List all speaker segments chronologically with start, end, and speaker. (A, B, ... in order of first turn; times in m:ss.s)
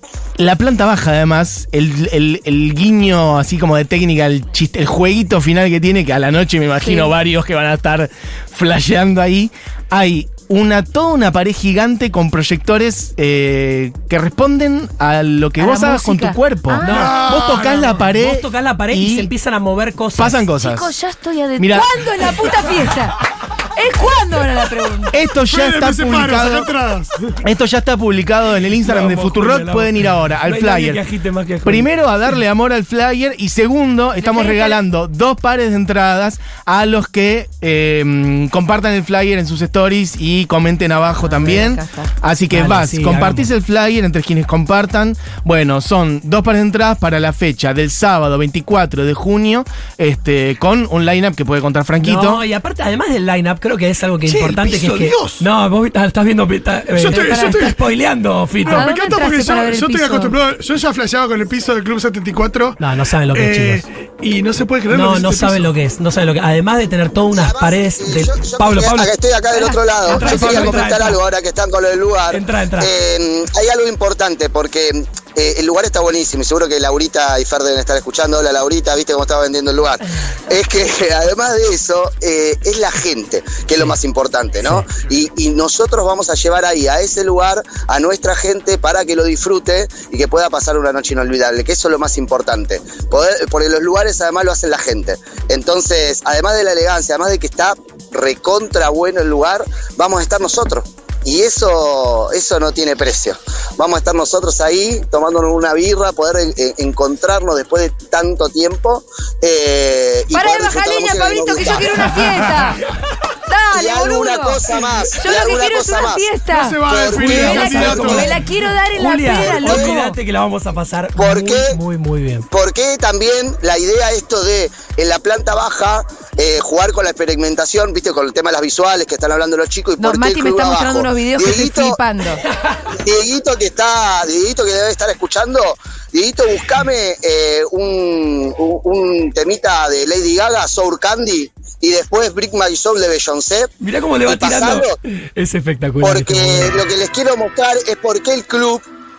0:00.4-0:19.3 A
0:06.8-0:07.1 B
0:15.6-0:17.1 B
0:16.8-0:20.4 C
0:16.9-0:17.9 D
0:20.2-0:20.9 A
0:20.6-0:23.2 B
0:21.6-0:22.0 A
0:23.7-0:25.1 B
0:25.1-0:26.7 A
0:25.5-0:27.1 D
0:27.4-0:31.0 A
0:28.8-0:31.9 C
0:31.6-0:52.4 A
0:34.2-0:34.8 B
0:41.2-0:42.1 B
0:42.5-0:43.5 C
0:52.0-0:58.9 C
0:54.2-0:55.4 D
0:56.9-0:57.9 D
0:57.1-0:57.5 B
0:58.6-1:02.8 D
0:58.7-1:00.3 B
1:02.8-1:03.8 C
1:03.3-1:05.7 D
1:04.9-1:09.1 C
1:07.3-1:52.3 E
1:09.5-1:10.8 B
1:10.1-1:11.2 C
1:12.3-1:12.9 C
1:50.3-1:52.8 B
1:53.5-1:54.6 B
1:53.7-1:56.3 E
1:55.2-2:00.2 B
1:56.5-1:58.4 D
1:56.9-1:58.0 E
1:57.1-2:02.5 C
1:59.3-1:59.9 E
2:01.2-2:01.8 E
2:02.5-2:12.0 E
2:10.0-2:12.4 B
2:13.0-2:23.7 E
2:23.8-2:26.8 C
2:24.2-2:25.0 E
2:26.0-2:28.8 E